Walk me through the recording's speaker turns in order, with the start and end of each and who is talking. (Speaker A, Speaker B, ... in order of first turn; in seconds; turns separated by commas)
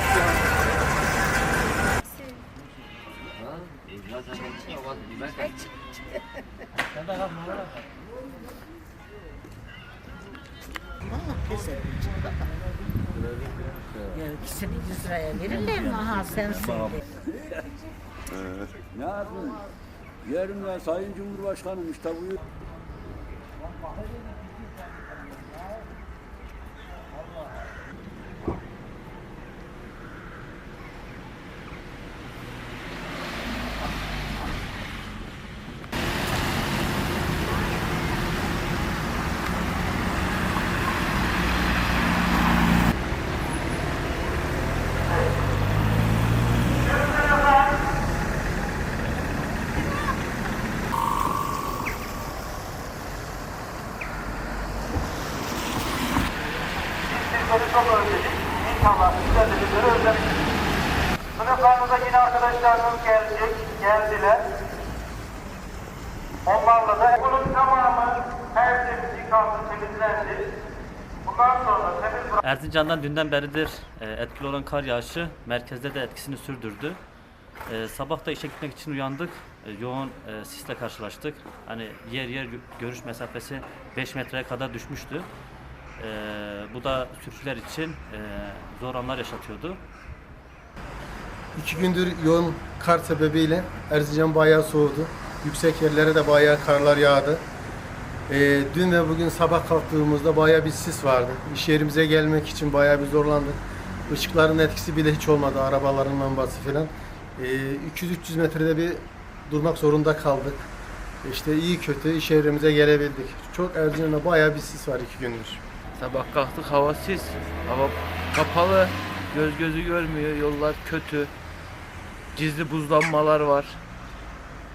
Speaker A: 11.1-12.2, Speaker A: 14.2-17.0, Speaker B: 19.0-19.6, Speaker B: 20.3-22.3, Speaker C: 57.1-60.2, Speaker C: 61.4-64.4, Speaker C: 66.5-70.4, Speaker C: 71.3-72.4, Speaker D: 72.4-77.0, Speaker D: 77.7-85.3, Speaker D: 86.0-89.8, Speaker E: 91.6-97.4, Speaker E: 98.3-110.6, Speaker E: 111.2-115.6, Speaker F: 116.0-121.3, Speaker F: 122.3-123.8